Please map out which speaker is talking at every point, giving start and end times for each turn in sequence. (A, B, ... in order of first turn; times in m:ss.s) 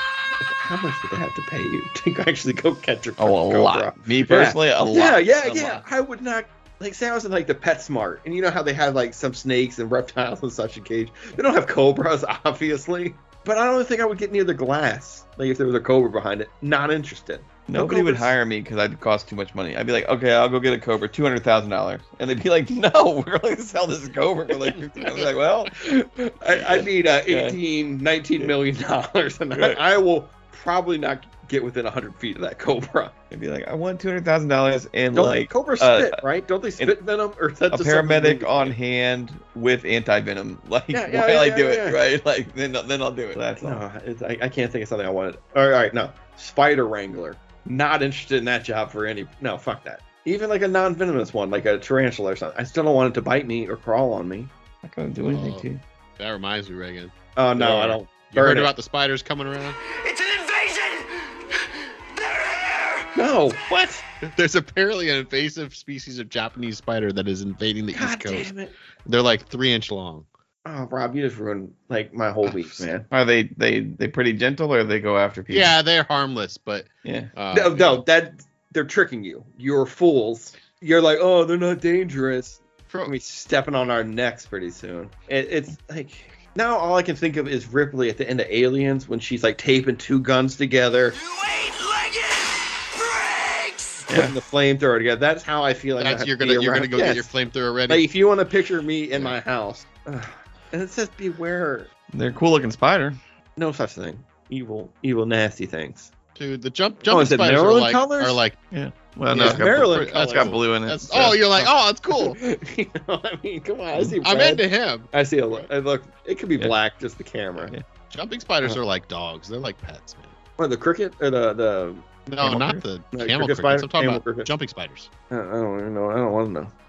0:00.4-0:18.3 A
0:03.2-0:05.8 B
0:17.7-0:25.9 B
0:25.8-0:33.1 A
0:26.5-0:27.6 B
0:33.3-0:36.2 B
0:35.1-0:38.8 A
0:37.7-0:43.8 B
0:40.9-0:42.0 A
0:43.4-0:54.5 A
0:54.8-0:55.8 B
0:55.2-0:55.7 C
0:56.2-0:59.8 C
0:57.4-0:58.7 A
0:59.9-1:01.6 D
1:02.1-1:03.1 D
1:03.2-1:04.0 A
1:04.3-1:08.5 C
1:07.9-1:08.7 A
1:09.0-1:10.3 C
1:10.6-1:13.1 A
1:13.1-1:15.8 B
1:15.5-1:18.0 C
1:17.0-1:17.3 B
1:17.5-1:31.2 A
1:22.9-1:23.1 C
1:31.2-1:34.0 D
1:34.1-1:37.3 A
1:34.1-1:34.4 B
1:36.0-1:38.1 C
1:37.9-1:41.9 A
1:42.1-1:43.2 B
1:43.6-1:46.1 A
1:46.4-1:48.6 C
1:47.1-1:48.4 A
1:48.7-1:51.7 B
1:49.3-1:52.4 C
1:49.3-1:50.6 A
1:52.1-1:57.8 A
1:54.0-1:55.7 C
1:58.1-2:00.4 C
2:00.6-2:02.1 A
2:02.3-2:05.1 C
2:02.4-2:02.8 B
2:03.1-2:04.5 A
2:05.3-2:06.7 A